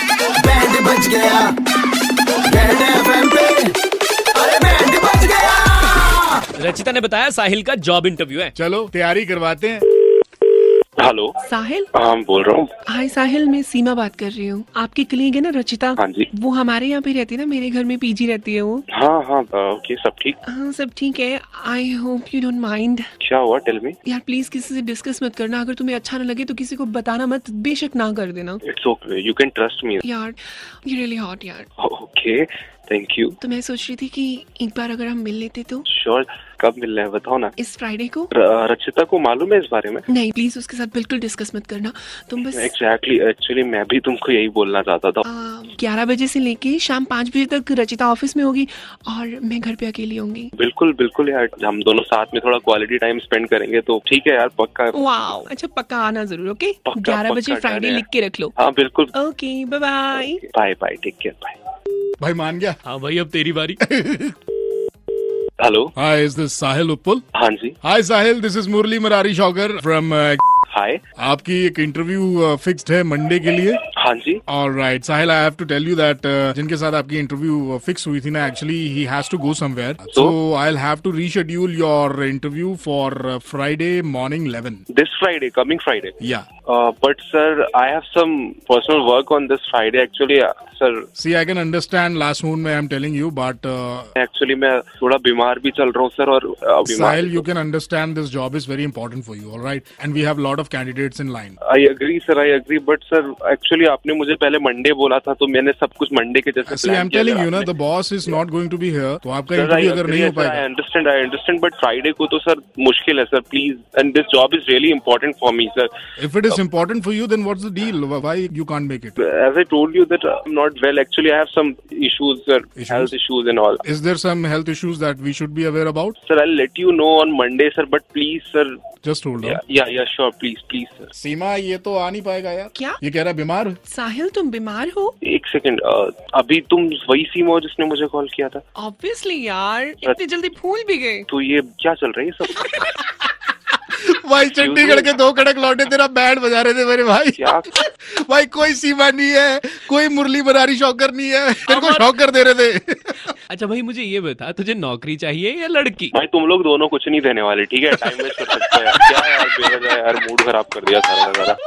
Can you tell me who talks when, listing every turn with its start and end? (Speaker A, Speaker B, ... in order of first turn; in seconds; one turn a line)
Speaker A: 0.4-1.5
Speaker A: 2.5-3.7
Speaker A: 4.3-6.4
Speaker B: 6.6-8.5
Speaker C: 8.5-9.8
Speaker D: 11.0-11.3
Speaker E: 11.5-11.9
Speaker D: 11.9-12.7
Speaker E: 12.8-18.8
Speaker D: 16.0-16.3
Speaker D: 18.9-20.4
Speaker E: 20.4-23.1
Speaker D: 23.2-24.0
Speaker E: 24.0-28.6
Speaker D: 28.6-30.1
Speaker E: 30.0-31.7
Speaker D: 31.8-33.4
Speaker E: 33.4-35.8
Speaker D: 35.9-37.5
Speaker E: 37.6-38.3
Speaker D: 38.3-40.0
Speaker E: 40.1-42.7
Speaker D: 42.5-45.2
Speaker E: 45.2-50.5
Speaker D: 50.6-55.4
Speaker E: 54.9-58.5
Speaker D: 56.9-58.0
Speaker D: 58.6-59.1
Speaker E: 59.1-60.4
Speaker D: 60.1-61.6
Speaker C: 62.2-62.8
Speaker B: 62.9-63.8
Speaker C: 63.8-64.3
Speaker D: 65.6-65.9
Speaker C: 66.0-67.2
Speaker D: 67.3-67.7
Speaker C: 67.8-70.4
Speaker D: 70.7-71.0
Speaker C: 71.2-73.8
Speaker D: 74.0-74.4
Speaker C: 74.5-84.8
Speaker D: 84.9-86.1
Speaker C: 86.2-86.5
Speaker D: 86.7-91.0
Speaker C: 91.2-94.1
Speaker D: 94.2-97.5
Speaker C: 96.9-101.5
Speaker D: 101.6-107.7
Speaker C: 106.7-110.7
Speaker D: 109.5-115.9
Speaker C: 116.2-119.2
Speaker D: 119.2-123.8
Speaker C: 122.8-123.1
Speaker C: 123.8-126.2
Speaker D: 126.2-128.8
Speaker C: 129.0-129.6
Speaker D: 129.4-131.1
Speaker C: 131.1-133.8
Speaker E: 133.8-135.1
Speaker D: 135.2-138.6
Speaker E: 138.8-141.2
Speaker D: 141.3-142.7
Speaker C: 143.9-153.2
Speaker D: 144.6-145.1
Speaker D: 147.4-147.8
Speaker B: 151.7-152.1
Speaker B: 153.5-156.1
Speaker D: 156.1-161.6